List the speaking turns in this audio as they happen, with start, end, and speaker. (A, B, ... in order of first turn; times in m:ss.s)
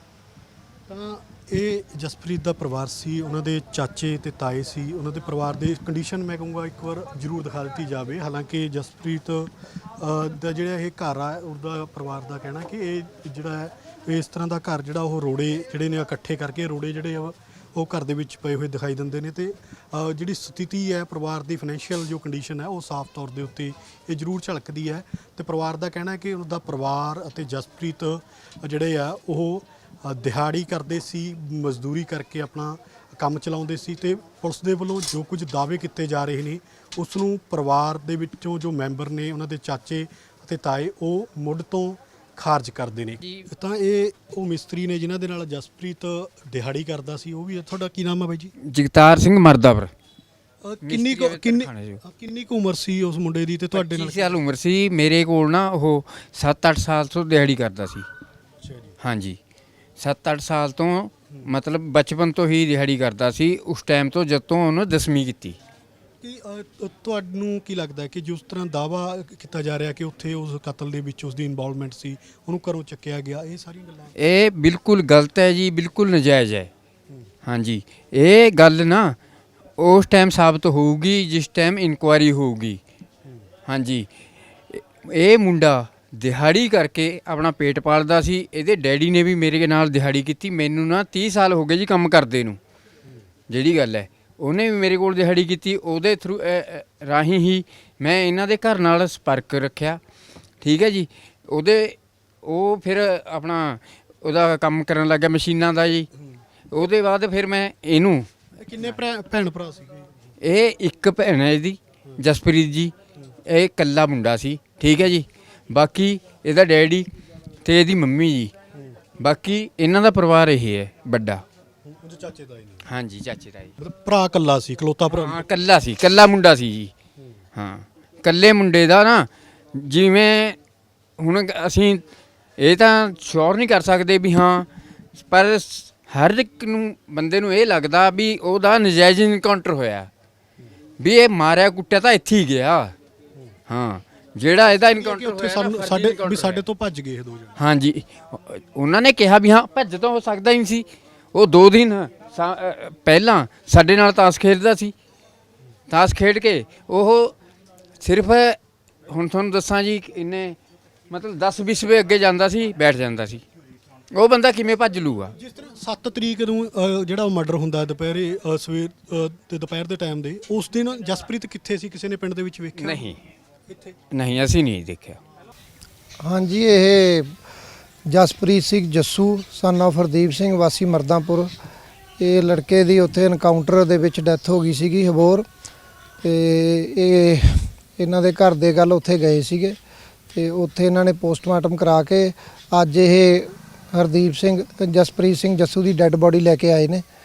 0:00.9-0:48.5 A
0:48.7-0:49.9 B
0:50.6-0:54.4 A
0:50.8-0:52.0 B
0:53.7-0:58.1 B
0:58.6-0:59.0 A
0:59.0-0:59.4 B
1:00.0-1:05.6 B
1:06.2-1:14.2 A
1:14.2-1:16.7 B
1:17.4-1:19.2 B
1:19.8-1:22.8 B
1:23.7-1:24.1 B
1:24.7-1:32.6 B
1:33.5-1:40.0 B
1:40.6-1:46.1 B
1:46.7-1:48.3 B
1:48.6-1:50.3 A
1:50.4-1:52.9 B
1:53.5-1:57.0 B
1:57.6-1:58.5 B
1:58.7-1:59.0 A
1:59.2-2:01.4 B
2:01.8-2:02.9 A
2:02.8-2:03.7 B
2:03.8-2:05.4 A
2:05.1-2:06.9 B
2:07.2-2:07.4 A
2:07.5-2:10.6 B
2:11.2-2:12.0 B
2:12.6-2:20.1 B
2:21.0-2:22.9 B
2:23.7-2:26.6 B
2:25.0-2:27.6 A
2:27.6-2:34.9 B
2:35.9-2:37.4 B
2:38.0-2:40.6 B
2:41.1-2:43.4 B
2:44.1-2:45.3 B
2:45.3-2:53.1 A
2:52.8-2:53.2 B
2:53.7-2:54.0 A
2:54.1-2:55.2 B
2:56.2-2:57.3 C
2:58.1-3:01.5 C
3:02.2-3:05.4 C
3:06.2-3:09.8 C
3:10.3-3:17.0 C